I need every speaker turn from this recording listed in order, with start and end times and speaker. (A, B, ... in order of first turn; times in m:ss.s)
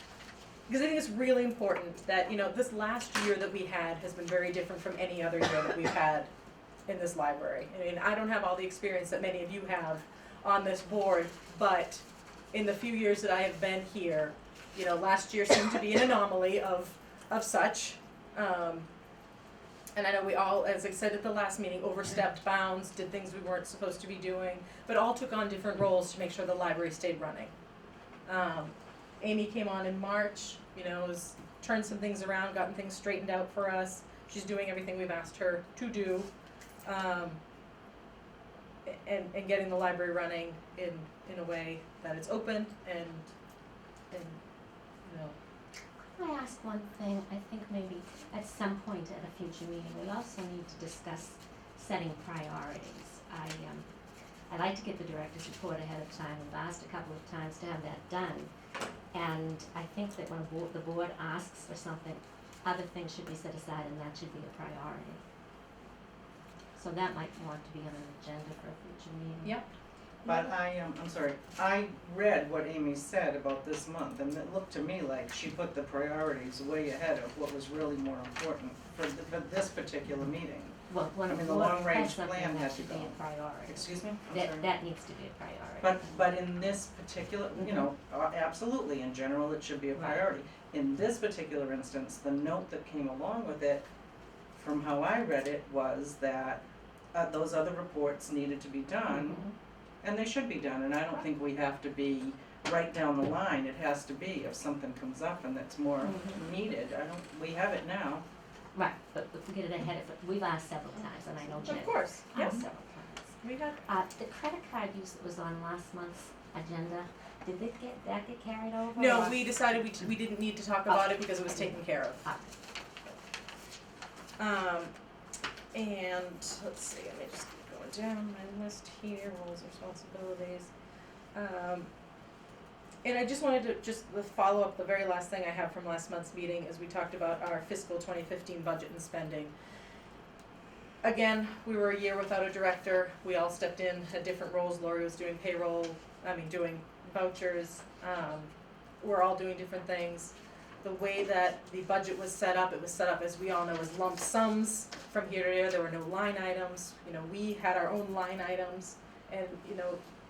0:00.7-0:06.3 A
0:06.9-0:18.9 A
0:19.9-0:27.5 A
0:28.2-0:36.3 A
0:36.8-0:37.4 A
0:38.8-0:43.3 A
0:44.1-0:44.4 A
0:45.0-0:45.4 A
0:46.1-0:53.9 B
0:54.5-0:58.5 B
0:59.1-1:05.2 B
1:06.7-1:09.6 B
1:10.2-1:20.8 C
1:20.9-1:26.3 B
1:21.3-1:24.7 C
1:25.8-1:33.8 C
1:27.6-1:27.8 B
1:29.9-1:30.2 B
1:34.5-1:36.6 C
1:37.1-1:39.4 C
1:39.1-1:39.5 B
1:40.0-1:48.2 C
1:46.0-1:46.5 B
1:48.7-1:53.3 B
1:51.6-1:52.6 A
1:52.3-1:52.6 C
1:53.4-1:53.8 A
1:53.8-1:59.7 B
1:58.9-2:02.3 A
2:00.8-2:02.5 B
2:04.4-2:04.9 A
2:05.7-2:10.7 A
2:11.3-2:11.9 A
2:13.0-2:19.5 A
2:21.0-2:40.0 A